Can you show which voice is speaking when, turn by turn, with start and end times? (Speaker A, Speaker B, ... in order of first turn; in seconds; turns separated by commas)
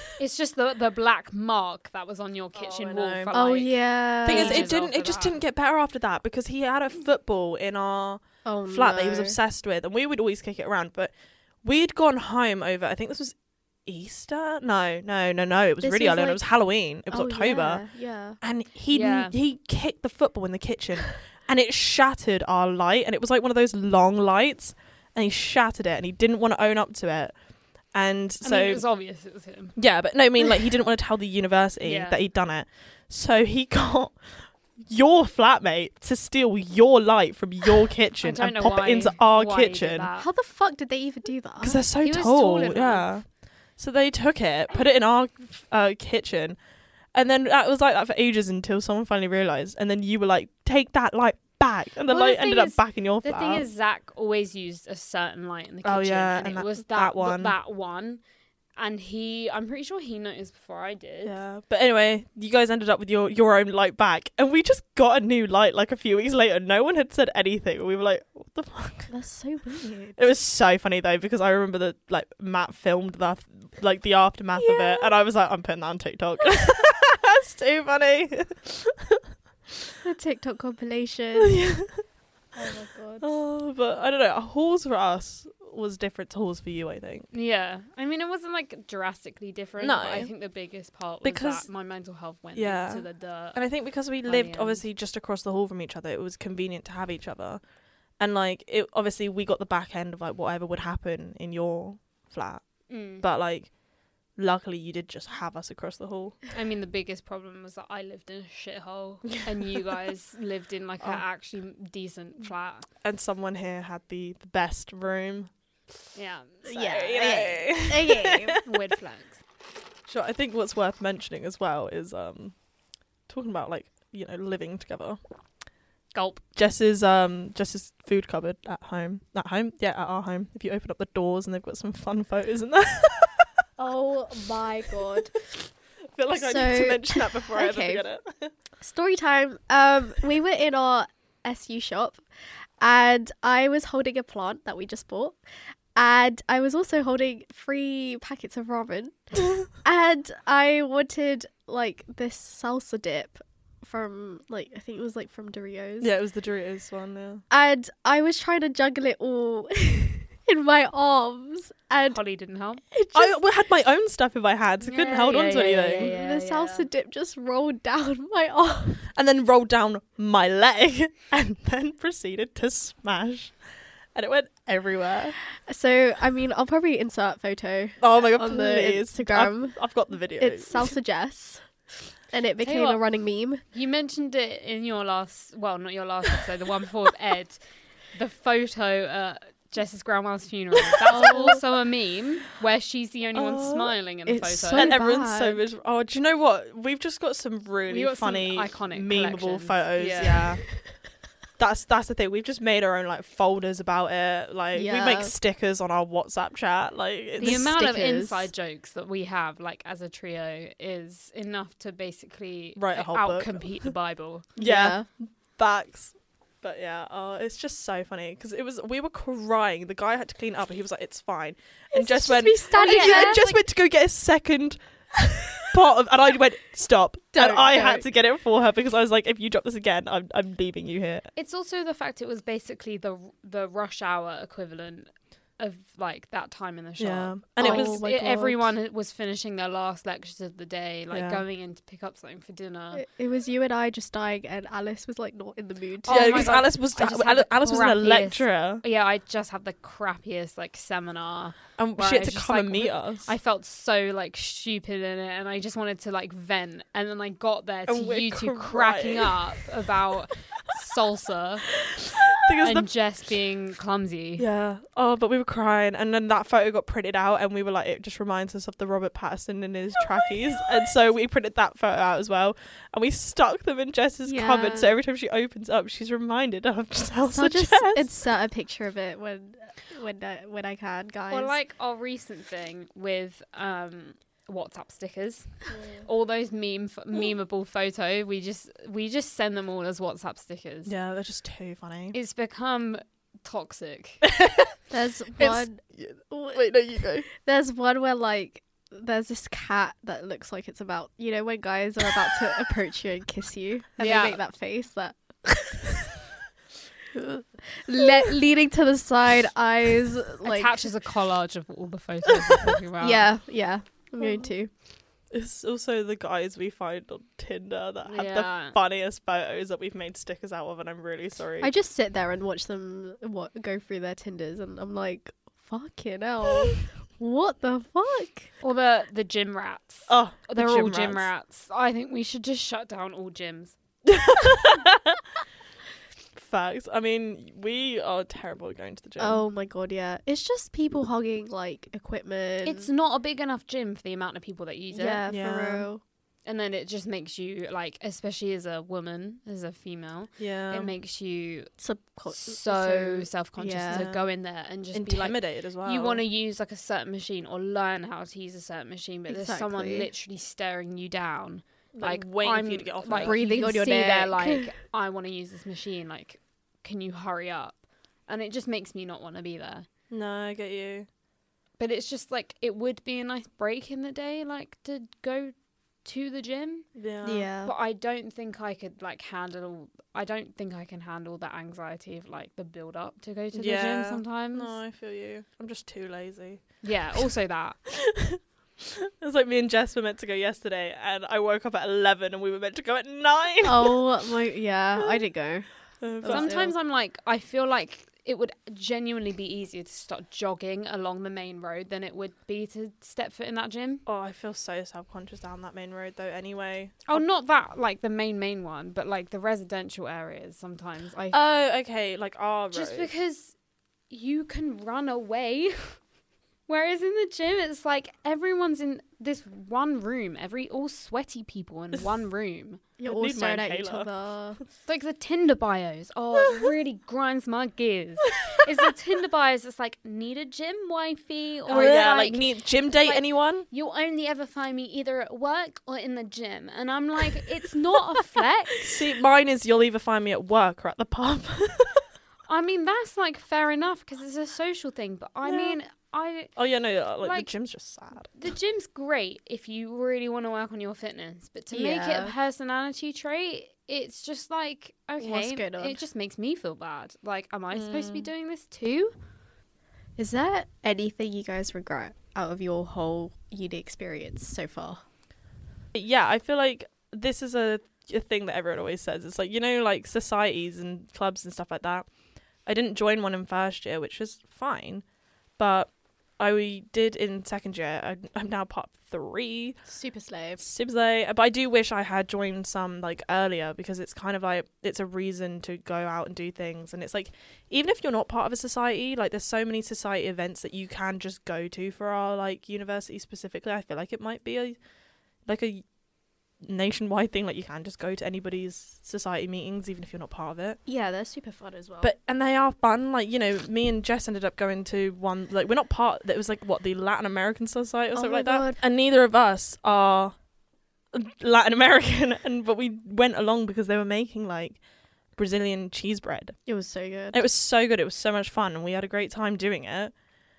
Speaker A: 0.2-5.4, Speaker B: 2.5-3.4, Speaker C: 3.3-4.7, Speaker B: 4.2-17.9, Speaker C: 8.4-9.4, Speaker C: 15.8-16.5, Speaker C: 17.1-18.4, Speaker B: 18.4-28.9, Speaker A: 18.9-19.4, Speaker A: 28.4-29.8, Speaker B: 29.8-40.1, Speaker A: 31.8-32.2, Speaker A: 38.2-40.3, Speaker C: 40.2-41.8, Speaker B: 41.6-46.6, Speaker A: 42.0-43.1, Speaker B: 47.1-53.7, Speaker A: 52.1-58.2, Speaker B: 55.8-57.5, Speaker A: 58.8-61.4, Speaker B: 61.2-69.1, Speaker C: 69.1-70.2, Speaker B: 70.2-79.2, Speaker C: 74.6-75.1, Speaker C: 80.0-81.6, Speaker B: 81.3-82.0, Speaker C: 82.5-83.3, Speaker B: 83.2-87.3, Speaker A: 87.3-93.6, Speaker B: 89.8-90.3, Speaker B: 91.2-91.7, Speaker B: 92.5-97.6, Speaker A: 94.2-94.8, Speaker B: 98.2-103.8, Speaker A: 102.9-103.2, Speaker B: 104.3-106.5, Speaker A: 106.5-112.9, Speaker B: 113.0-115.5, Speaker A: 116.2-116.9, Speaker C: 116.7-118.6, Speaker B: 116.7-118.6, Speaker A: 118.6-119.4, Speaker B: 120.1-122.6, Speaker B: 123.3-125.2, Speaker A: 126.1-126.4, Speaker B: 126.5-133.5, Speaker C: 133.8-135.4, Speaker B: 136.2-138.5, Speaker C: 136.3-138.1, Speaker C: 138.8-142.2, Speaker C: 142.8-145.4, Speaker C: 145.9-156.1, Speaker B: 156.0-157.4, Speaker C: 157.5-162.2, Speaker A: 162.1-162.8, Speaker C: 162.9-163.4, Speaker B: 163.1-166.2, Speaker A: 164.8-166.9, Speaker C: 165.9-169.1, Speaker B: 169.1-173.6, Speaker B: 174.2-175.4, Speaker C: 175.5-183.6, Speaker B: 178.0-180.9, Speaker A: 182.6-183.0, Speaker A: 183.7-187.6, Speaker A: 188.1-194.9, Speaker C: 191.1-191.6, Speaker B: 193.3-193.9, Speaker C: 194.3-195.6, Speaker B: 194.7-200.8, Speaker A: 197.9-200.6, Speaker B: 201.6-207.7, Speaker C: 204.7-205.3, Speaker C: 207.4-208.5, Speaker A: 207.4-214.5, Speaker B: 212.8-213.9, Speaker B: 214.6-231.3, Speaker C: 214.6-215.1, Speaker C: 221.9-223.5, Speaker A: 222.7-223.6, Speaker C: 227.3-228.1, Speaker A: 231.3-243.1, Speaker B: 237.0-238.0, Speaker C: 237.6-238.7, Speaker B: 241.1-241.4, Speaker C: 242.9-246.6, Speaker A: 246.1-261.6, Speaker B: 246.1-248.8, Speaker B: 251.8-253.3, Speaker B: 257.9-259.7, Speaker B: 262.1-262.9, Speaker A: 262.6-264.4, Speaker B: 264.4-278.1, Speaker C: 274.2-275.0, Speaker C: 277.3-281.6, Speaker A: 281.3-290.9, Speaker B: 290.9-292.2, Speaker A: 292.1-294.2, Speaker B: 294.2-294.8, Speaker C: 294.9-295.8, Speaker B: 295.4-297.3, Speaker C: 297.3-305.9, Speaker A: 304.0-304.4, Speaker C: 307.1-310.8, Speaker A: 310.4-313.3, Speaker C: 313.0-314.7, Speaker B: 315.3-321.7, Speaker A: 318.1-318.8, Speaker C: 321.6-328.5, Speaker A: 328.6-333.8, Speaker B: 330.1-331.3, Speaker B: 334.1-335.2, Speaker B: 336.4-339.4, Speaker C: 339.2-342.9, Speaker A: 342.6-345.3, Speaker C: 344.9-346.0, Speaker B: 345.3-345.9, Speaker A: 346.4-351.7, Speaker B: 350.4-350.9, Speaker C: 351.8-354.1, Speaker A: 352.3-369.9, Speaker B: 353.9-354.2, Speaker B: 354.9-356.2, Speaker C: 359.3-360.1, Speaker B: 361.9-363.4, Speaker C: 363.1-364.7, Speaker B: 370.1-371.1, Speaker A: 371.8-376.9, Speaker B: 377.0-377.5, Speaker C: 377.2-377.7, Speaker A: 377.6-384.8, Speaker B: 383.5-387.3, Speaker A: 386.8-387.8, Speaker B: 388.0-394.1, Speaker C: 393.6-396.7, Speaker B: 396.0-396.6, Speaker A: 396.3-404.0, Speaker B: 404.1-407.2, Speaker A: 407.1-411.4, Speaker B: 411.3-413.1, Speaker A: 412.7-413.6, Speaker A: 414.1-416.0, Speaker A: 416.7-422.8, Speaker C: 423.0-424.6, Speaker B: 423.1-424.1, Speaker A: 424.9-438.9, Speaker B: 431.7-433.7, Speaker B: 438.8-442.0, Speaker A: 442.5-446.5, Speaker B: 445.5-445.8, Speaker B: 446.6-448.4, Speaker A: 447.2-447.6, Speaker A: 448.3-459.1, Speaker C: 451.7-452.3, Speaker C: 455.2-456.0, Speaker B: 457.7-458.3, Speaker C: 460.2-465.0, Speaker B: 465.9-472.1, Speaker B: 472.6-475.1, Speaker B: 475.6-479.8, Speaker C: 479.9-480.6, Speaker B: 480.6-494.8, Speaker B: 495.4-495.9, Speaker B: 496.6-500.8, Speaker C: 500.9-502.1, Speaker B: 502.0-510.4, Speaker C: 508.1-508.8, Speaker B: 511.1-514.8, Speaker B: 515.4-516.6, Speaker C: 516.7-517.4, Speaker B: 517.3-520.1